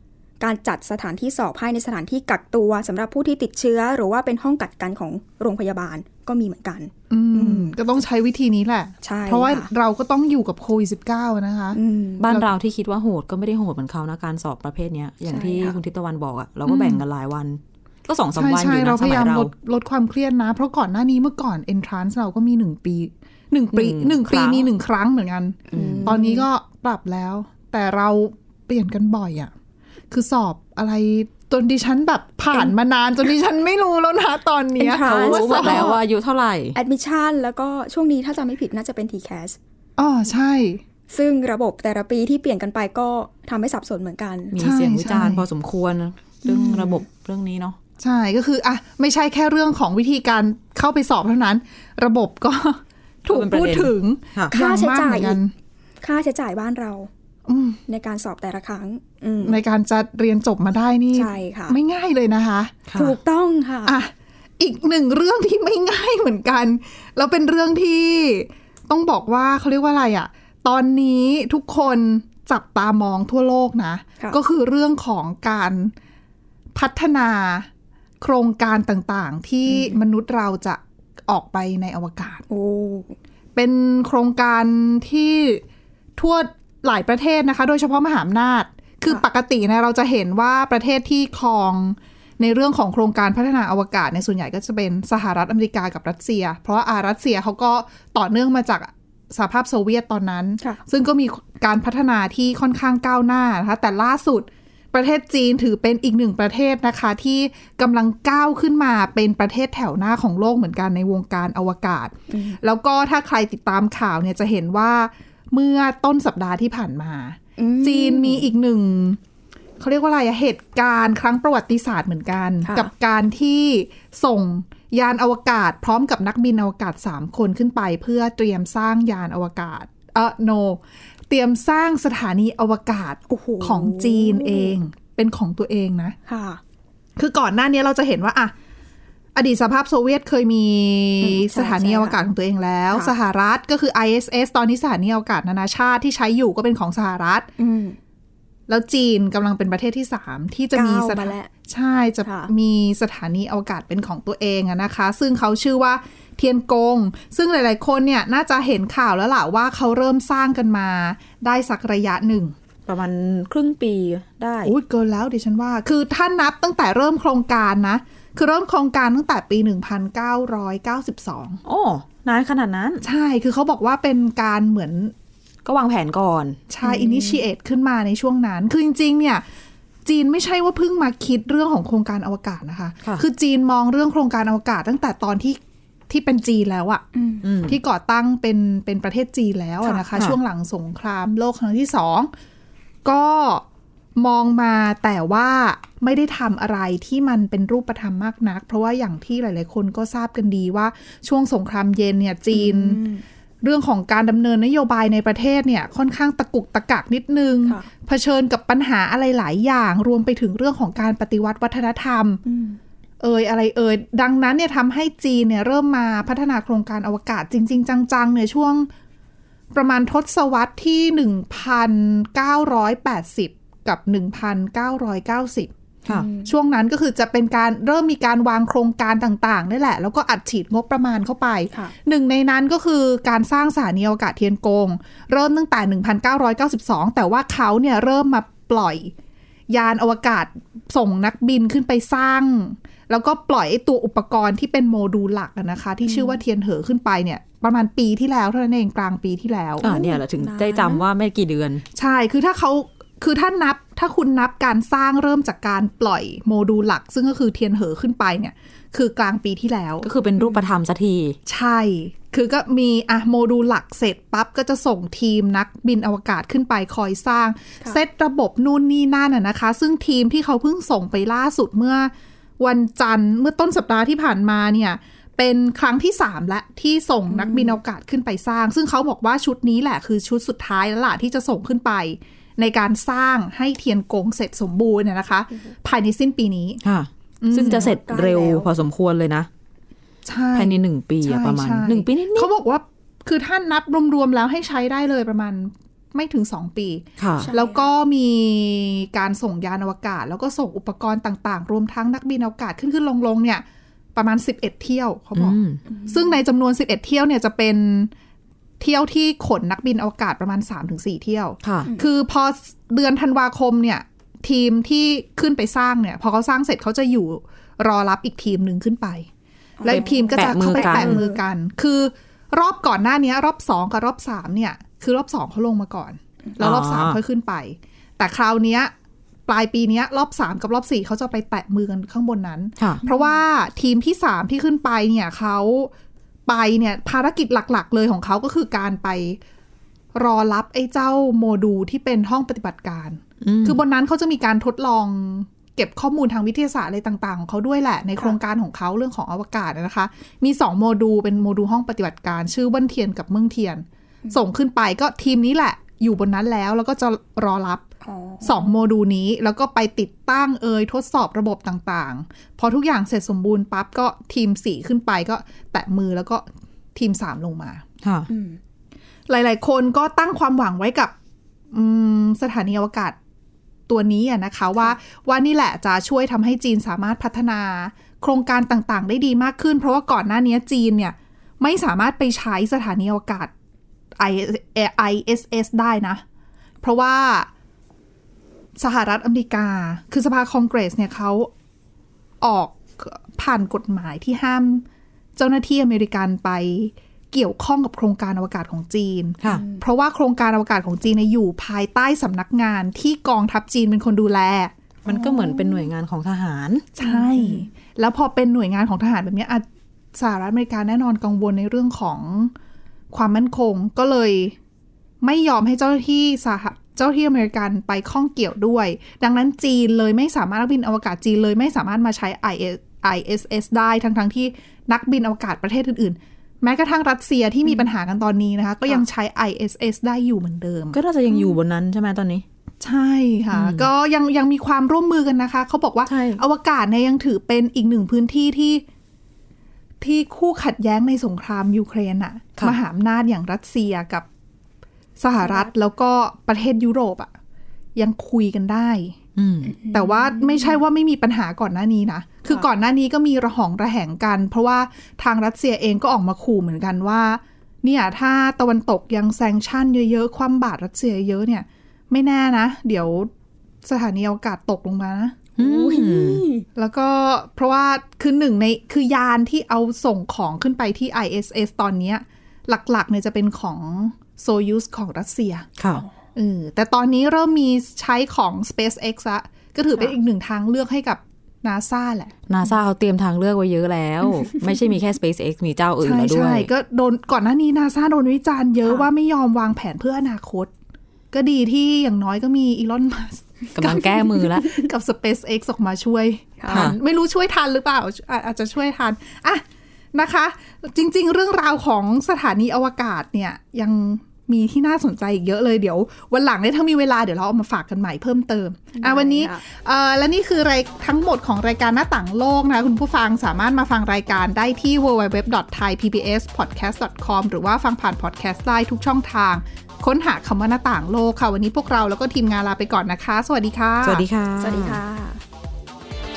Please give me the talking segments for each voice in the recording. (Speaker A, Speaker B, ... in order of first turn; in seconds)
Speaker A: 0.4-7.8, 9.0-9.7, 11.7-12.3, 15.3-15.8, 25.7-26.5, 34.8-36.0, 36.8-39.6, 41.1-44.5, 54.5-55.4, 56.0-57.1, 57.9-59.6, 61.1-61.8, 62.9-64.0, 79.7-80.0, 82.5-83.2, 112.3-112.6, 117.6-118.5, 122.6-122.9, 133.3-134.8, 136.3-136.6, 141.2-142.2, 147.6-148.0, 150.7-151.5, 152.2-152.5, 176.8-177.4, 187.1-187.5, 202.5-203.2, 212.4-212.8, 226.1-226.5, 246.1-246.4, 249.8-251.0, 277.3-277.8, 287.5-288.7, 297.4-297.9, 305.9-306.3, 319.8-321.4, 333.0-333.4, 358.0-358.7, 368.3-368.6, 399.5-399.8, 405.2-405.9, 407.0-407.6, 445.4-445.7, 449.8-450.5, 465.6-466.7, 496.6-496.9, 509.0-509.6, 524.6-525.4
Speaker B: 7.1-12.5, 16.7-17.0, 18.4-29.5, 30.1-35.9, 40.0-40.8, 44.6-45.5, 46.5-46.9, 48.0-55.5, 57.5-57.8, 59.4-62.9, 63.9-75.9, 76.8-77.7, 78.2-82.5, 83.5-85.6, 86.2-119.2, 119.8-136.2, 137.2-138.5, 139.3-147.5, 148.7-162.6, 164.7-171.6, 173.0-175.1, 176.7-179.4, 180.1-187.0, 187.7-192.3, 193.1-193.7, 194.2-203.0, 203.6-212.4, 213.2-218.9, 219.7-225.7, 226.4-239.1, 239.7-249.9, 252.0-260.1, 261.5-286.8, 287.4-287.9, 290.2-308.1, 308.8-319.3, 319.8-328.9, 329.5-335.9, 336.5-339.4, 340.1-357.9, 358.4-367.8, 369.3-371.1, 371.7-373.2, 373.9-383.5, 384.2-386.2, 386.8-387.5, 388.8-391.5, 392.4-394.9, 395.4-404.7, 407.0-412.5, 413.1-414.6, 415.2-431.0, 432.8-438.8, 440.0-444.3, 445.2-447.3, 448.0-449.2, 449.9-463.3, 463.8-465.4, 466.8-475.7, 476.4-482.3, 486.0-490.7, 491.3-524.2
Speaker C: 12.2-19.5, 23.7-24.7, 25.7-26.1, 35.0-36.8, 44.5-47.8, 53.3-54.5, 62.9-63.2, 162.9-164.8, 171.7-173.0, 175.7-176.6, 187.4-187.8, 249.8-251.8, 260.0-261.4, 286.8-289.5, 290.6-292.5, 297.2-297.5, 305.4-305.8, 311.6-311.9, 319.9-321.2, 326.6-327.2, 343.4-343.8, 368.0-368.3, 405.1-406.9, 430.9-432.4, 433.5-433.9, 436.1-436.4, 449.4-449.8, 465.6-466.4, 475.8-476.1, 482.5-486.7, 493.8-494.7, 496.7-497.0, 524.0-525.0